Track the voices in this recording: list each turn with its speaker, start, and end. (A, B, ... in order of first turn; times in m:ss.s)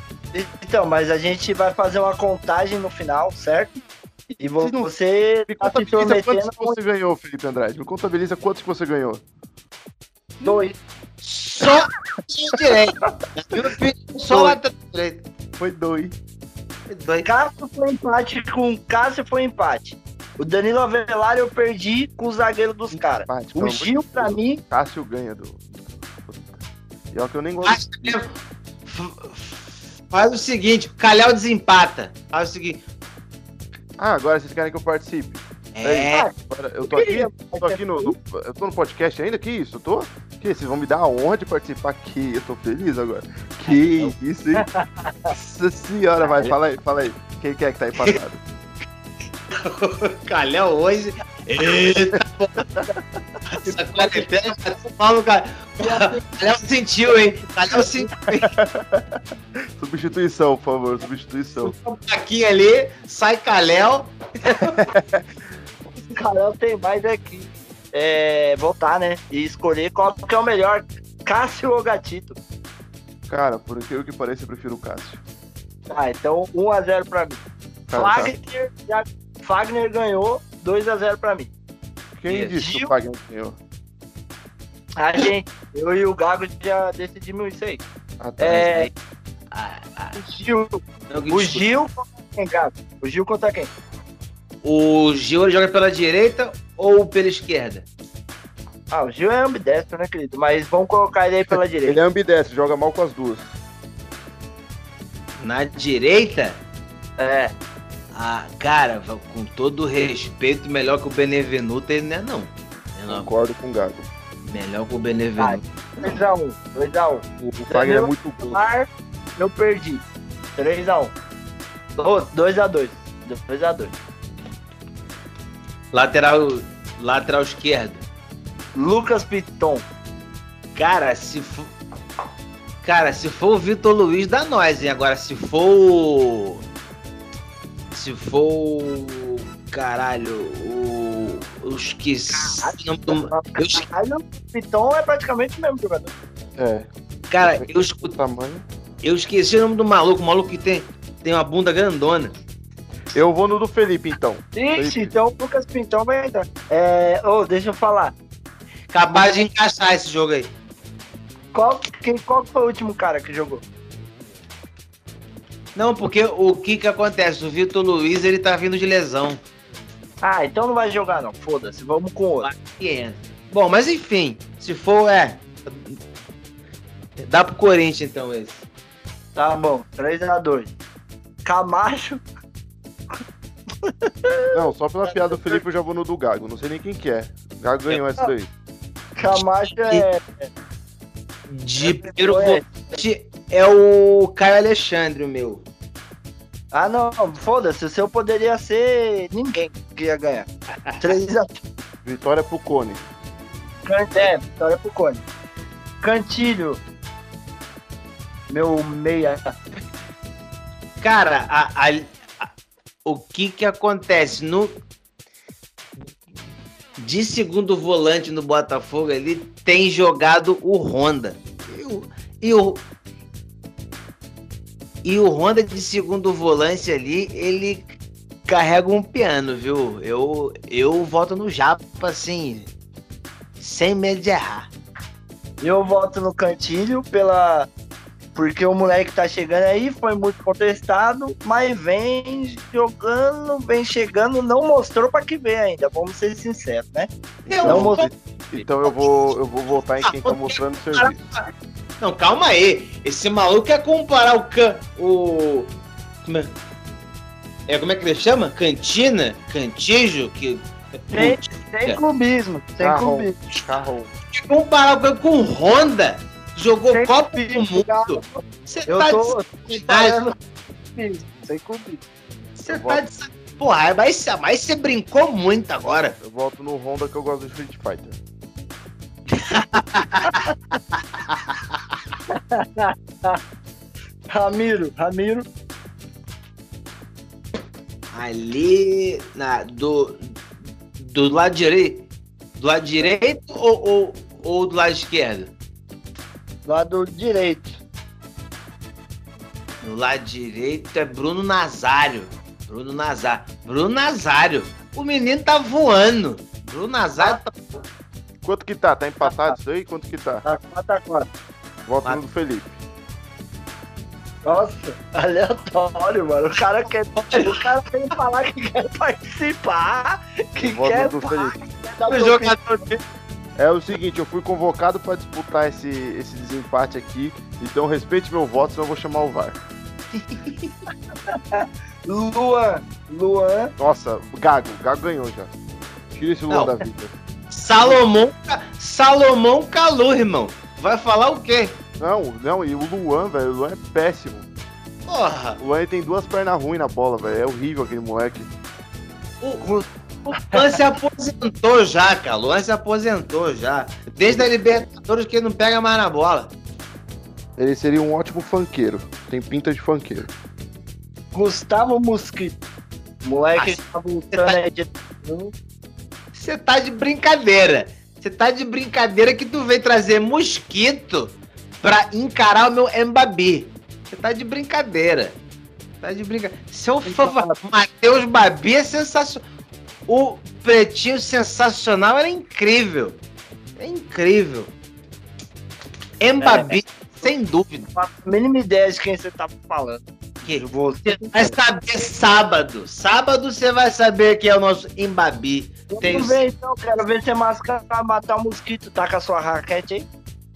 0:00.3-0:03.8 A
0:04.4-0:06.8 A
0:04.5-0:04.9 B
0:05.5-0:09.2 B
0:10.4-0:10.8 A
0:11.2-0:15.2 C
0:14.3-0:14.6 B
0:15.6-0:16.1 B
0:16.9-0:17.3 C
0:17.2-0:24.6 A
0:22.9-0:26.6 B
0:27.1-0:28.2 B
0:27.6-0:28.3 C
0:28.8-0:32.8 C
0:34.0-0:44.6 B
0:35.7-0:36.3 C
0:36.9-0:38.1 A
0:43.7-0:44.1 C
0:44.6-0:45.3 A
0:45.3-0:48.4 B
0:49.5-0:52.6 C
0:52.1-0:52.9 B
0:53.5-0:58.5 C
0:53.6-0:54.3 A
0:55.8-0:56.2 A
0:58.4-0:59.2 B
0:59.8-1:01.7 B
1:01.6-1:04.8 C
1:04.8-1:05.2 B
1:06.1-1:12.4 A
1:13.3-1:15.2 B
1:15.9-1:17.4 A
1:17.9-1:18.3 B
1:17.9-1:21.5 A
1:22.2-1:23.6 B
1:22.3-1:22.6 C
1:22.6-1:22.9 A
1:25.0-1:27.8 A
1:28.2-1:28.9 B
1:28.4-1:28.9 A
1:29.5-1:30.2 C
1:30.2-1:33.7 A
1:31.1-1:31.6 C
1:34.6-1:37.8 C
1:38.9-1:42.0 A
1:41.8-1:43.5 B
1:45.4-1:46.6 C
1:47.2-1:47.5 A
1:48.1-1:53.3 C
1:53.1-1:54.0 B
1:54.4-1:55.6 C
1:55.4-2:00.0 A
1:57.4-1:58.6 B
2:00.6-2:01.1 A
2:02.0-2:04.0 A
2:05.9-2:08.0 C
2:08.8-2:09.8 A
2:10.7-2:11.7 C
2:12.8-2:16.6 C
2:17.9-2:23.8 C
2:22.3-2:26.1 A
2:26.6-2:26.9 B
2:27.3-2:28.2 C
2:27.6-2:28.6 B
2:29.0-2:32.3 C
2:33.1-2:35.1 B
2:34.6-2:38.1 A
2:38.9-2:40.5 C
2:41.5-2:43.6 A
2:45.7-2:49.4 C
2:50.2-2:52.5 A
2:52.4-2:56.0 C
2:57.2-2:58.6 C
2:59.4-3:00.7 A
3:01.4-3:02.2 A
3:03.8-3:05.6 A
3:04.5-3:08.5 B
3:09.2-3:10.5 A
3:11.5-3:15.6 C
3:11.8-3:12.6 A
3:16.7-3:20.5 A
3:20.9-3:21.1 C
3:21.0-3:21.6 A
3:22.0-3:23.0 B
3:23.8-3:25.2 A
3:26.0-3:26.8 A
3:28.5-3:29.5 A
3:31.0-3:32.5 C
3:33.0-3:34.7 C
3:37.0-3:42.8 C
3:45.0-3:47.9 C
3:48.4-3:52.7 C
3:53.6-3:54.7 C
3:55.6-3:57.7 A
3:58.3-4:07.1 A
4:07.5-4:11.2 B
4:07.5-4:08.1 C
4:07.6-4:08.1 A
4:10.0-4:11.4 C
4:12.0-4:15.7 C
4:16.2-4:16.5 C
4:17.7-4:22.0 C
4:21.1-4:23.5 A
4:22.8-4:24.1 B
4:24.3-4:30.2 C
4:26.9-4:30.4 A
4:30.9-4:32.0 A
4:32.6-4:36.2 C
4:32.7-4:33.0 B
4:36.2-4:38.2 B
4:39.3-4:40.4 C
4:41.2-4:41.8 C
4:42.3-4:43.4 A
4:44.3-4:45.4 A
4:48.1-4:50.4 C
4:51.0-4:52.1 C
4:52.6-4:55.5 C
4:56.6-4:57.8 A
4:59.8-5:07.6 C
5:08.4-5:10.4 B
5:09.2-5:09.5 A
5:10.4-5:11.3 A
5:11.8-5:12.7 B
5:14.4-5:22.8 A
5:17.2-5:17.7 C
5:20.6-5:21.6 B
5:22.1-5:23.0 C
5:23.6-5:29.6 B
5:30.1-5:30.8 C
5:31.3-5:33.7 A
5:33.8-5:35.5 B
5:36.1-5:37.1 B
5:36.5-5:36.8 C
5:37.5-5:41.8 C
5:42.0-5:44.5 B
5:45.1-5:45.6 C
5:45.6-5:48.5 B
5:49.4-5:56.5 C
5:50.5-5:50.8 A
5:57.6-6:00.3 B
6:01.3-6:02.6 A
6:03.2-6:05.5 A
6:03.6-6:04.6 C
6:06.3-6:15.4 C
6:16.0-6:19.4 C
6:17.0-6:17.6 A
6:20.1-6:23.2 C
6:23.8-6:24.7 C
6:26.2-6:27.9 C
6:26.4-6:26.8 A
6:27.9-6:31.6 A
6:30.4-6:36.4 C
6:35.9-6:40.0 A